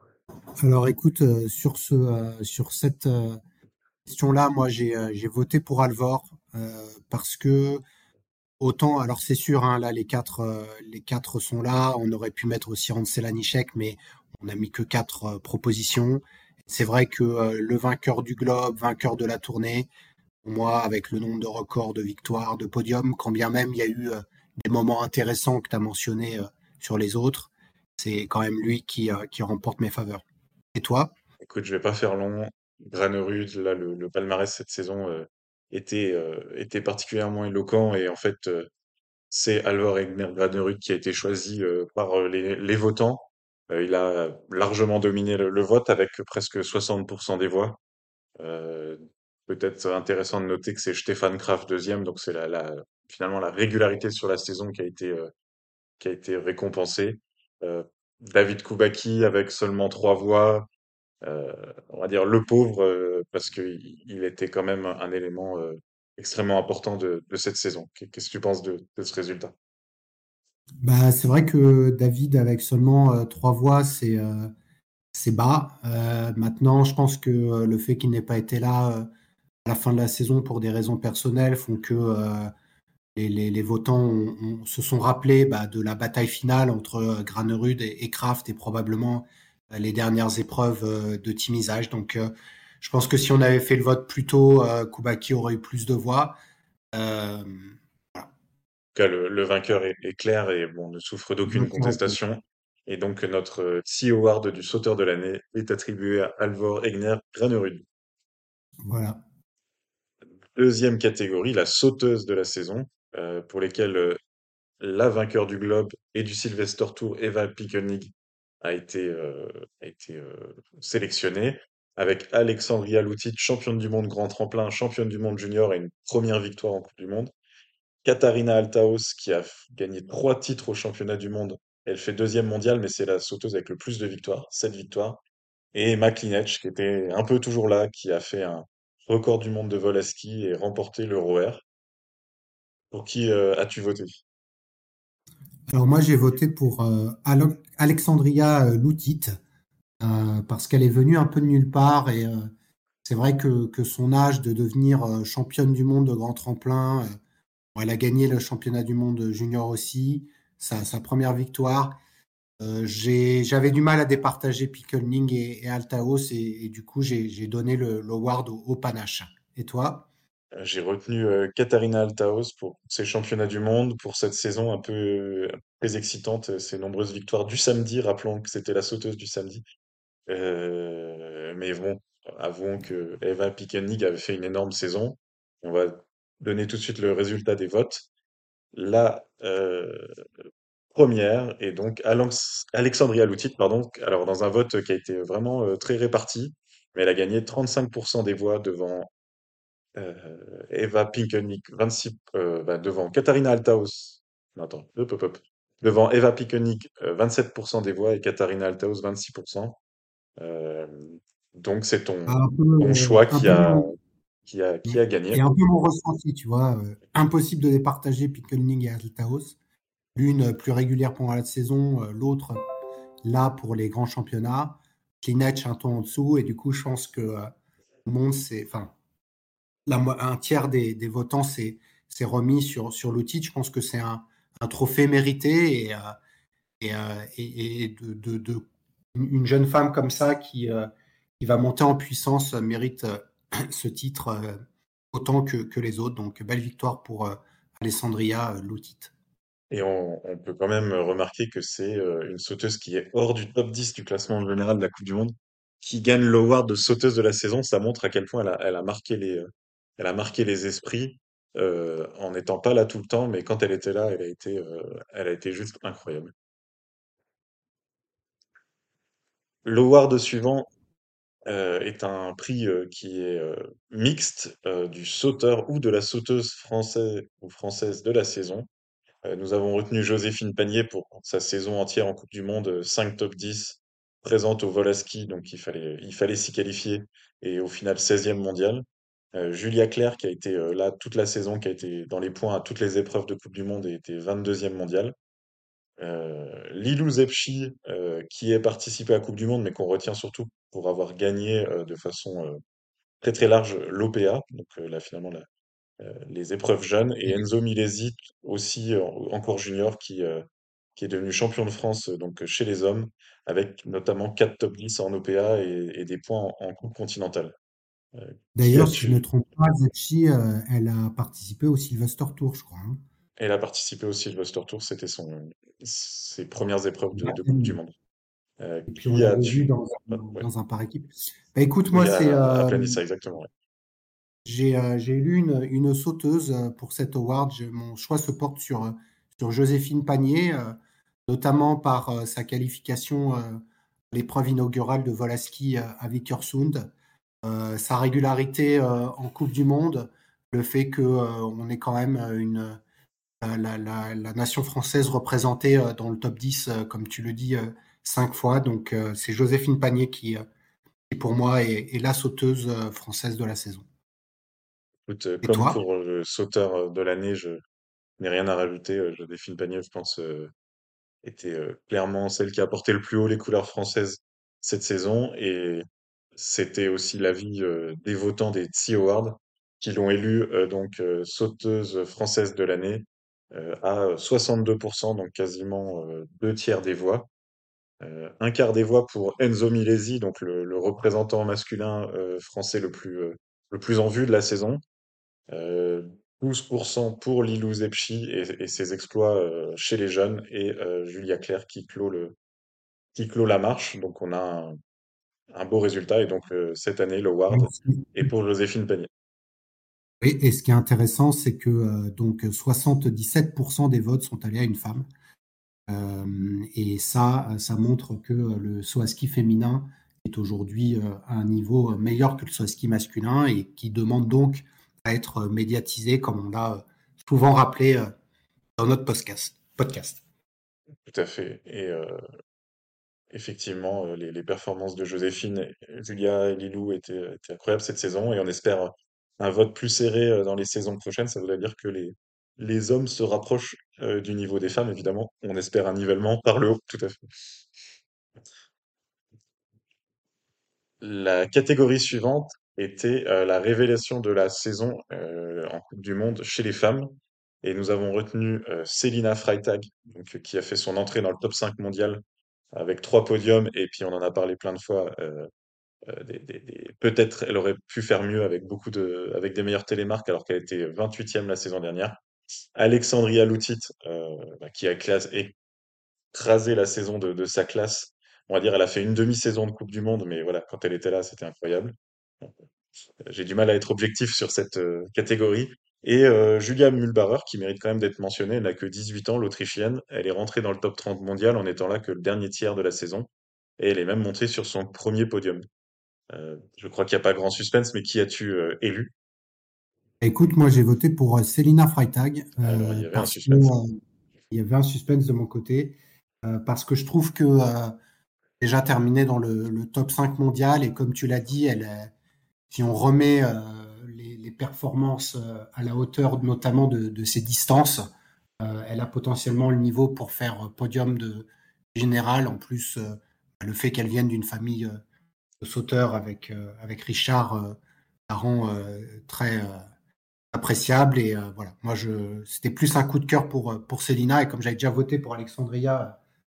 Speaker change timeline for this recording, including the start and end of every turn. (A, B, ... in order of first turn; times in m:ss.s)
0:00.6-0:03.4 A
0:04.1-0:07.8 A
0:08.6-0:19.9 A
0:20.4-0:31.1 A
0:31.4-0:38.7 B
0:39.3-0:47.8 B
0:48.4-0:55.3 B
0:56.0-1:00.7 B
1:01.2-1:09.5 B
1:10.8-1:14.5 A
1:15.1-1:19.1 A
1:19.6-1:22.5 A
1:23.2-1:36.4 A
1:36.9-1:38.3 A
1:39.0-1:47.9 B
1:41.5-1:42.2 A
1:48.8-1:49.2 A
1:50.6-1:54.2 B
1:54.8-2:07.3 B
2:08.0-2:15.2 B
2:15.7-2:21.6 B
2:22.9-2:24.2 B
2:25.7-2:29.4 A
2:30.0-2:32.5 A
2:33.0-2:37.2 A
2:37.8-2:42.0 A
2:42.6-2:50.1 A
2:50.5-2:59.6 B
3:00.3-3:08.1 B
3:08.7-3:10.3 B
3:10.9-3:19.1 B
3:20.0-3:29.8 B
3:30.4-3:33.9 B
3:32.3-3:33.9 A
3:34.5-3:35.4 B
3:34.9-3:39.6 A
3:40.2-3:42.6 A
3:43.2-3:47.5 A
3:48.0-3:48.9 A
3:49.9-3:56.1 A
3:56.8-3:58.6 A
3:59.2-4:00.9 A
4:01.4-4:04.6 A
4:05.1-4:09.1 A
4:09.7-4:26.3 B
4:29.6-4:30.7 B
4:31.5-4:38.7 B
4:39.2-4:55.2 B
4:56.0-5:02.6 B
5:03.2-5:05.5 B
5:06.0-5:10.4 B
5:11.0-5:17.6 B
5:18.2-5:19.2 B
5:18.6-5:23.0 A
5:23.4-5:27.9 B
5:27.2-5:27.8 A
5:28.6-5:30.5 B
5:28.9-5:33.0 A
5:31.9-5:33.5 B
5:34.4-5:40.8 A
5:41.3-5:46.9 A
5:47.4-5:52.8 A
5:53.4-6:00.4 A
6:01.1-6:03.9 A
6:05.1-6:07.6 B
6:05.4-6:05.8 A
6:08.2-6:10.5 B
6:11.2-6:27.3 B
6:28.0-6:34.8 B
6:35.5-6:42.4 B
6:43.2-6:44.8 B
6:45.5-6:49.1 B
6:47.5-6:48.2 A
6:50.2-6:55.1 A
6:55.9-7:08.1 A
7:08.8-7:10.2 A
7:11.1-7:12.2 B
7:13.3-7:27.2 B
7:31.0-7:37.1 B
7:37.6-7:42.2 B
7:42.8-7:45.5 B
7:46.0-7:52.2 B
7:52.8-7:55.6 B
7:56.3-8:02.6 B
8:03.2-8:15.6 B
8:16.3-8:19.1 B
8:20.2-8:24.0 A
8:22.6-8:23.8 B
8:24.5-8:28.0 A
8:28.6-8:32.1 A
8:32.7-8:38.0 A
8:38.6-8:45.0 A
8:45.6-8:47.8 A
8:48.3-8:49.8 A
8:50.5-8:56.2 A